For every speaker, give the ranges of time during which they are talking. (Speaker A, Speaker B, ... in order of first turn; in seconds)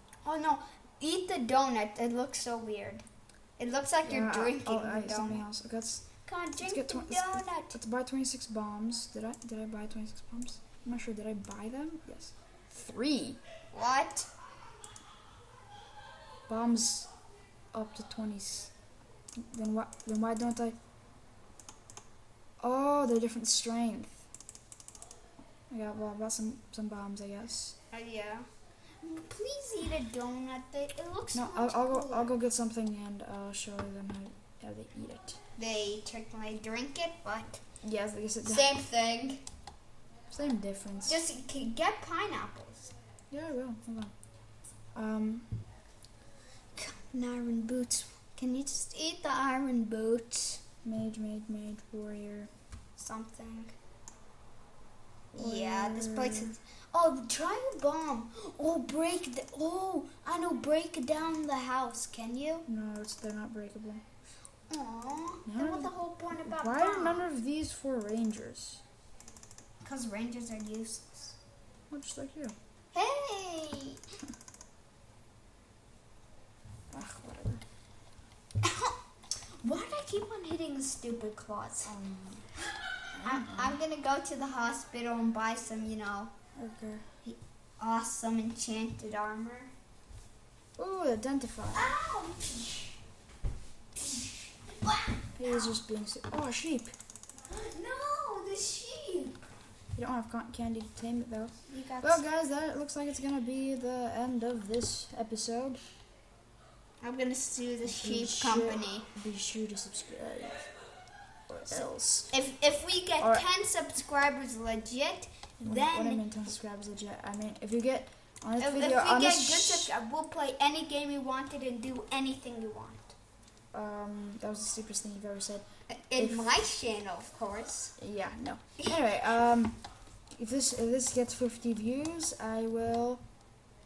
Speaker A: 0.2-5.4, 6.2-7.8, 13.7-14.3, 27.9-28.5, 29.0-32.3, 35.5-37.7, 38.4-39.4, 41.0-42.9, 46.7-50.6, 53.0-53.7, 55.3-62.6, 64.7-67.2, 69.8-71.4, 72.9-74.0, 78.6-81.9, 83.2-86.3, 87.2-89.7, 91.7-93.0, 94.0-95.8, 97.5-99.4, 101.7-102.2, 107.0-109.0, 111.7-116.2, 118.6-123.1, 125.9-128.0
Speaker B: 4.0-13.4, 16.5-17.1, 17.7-18.7, 19.4-20.8, 22.6-24.2, 25.7-27.7, 31.3-35.4, 37.8-38.7, 40.3-41.2, 43.3-45.7, 50.8-52.5, 55.3-56.5, 62.7-64.0, 65.5-68.8, 71.9-72.5, 76.9-77.6, 81.8-82.5, 83.1-83.8, 86.5-87.0, 90.8-91.9, 95.4-96.9, 99.9-105.8, 107.8-110.7, 111.5-112.4, 113.2-113.5, 115.6-119.9, 123.7-126.5, 128.0-133.2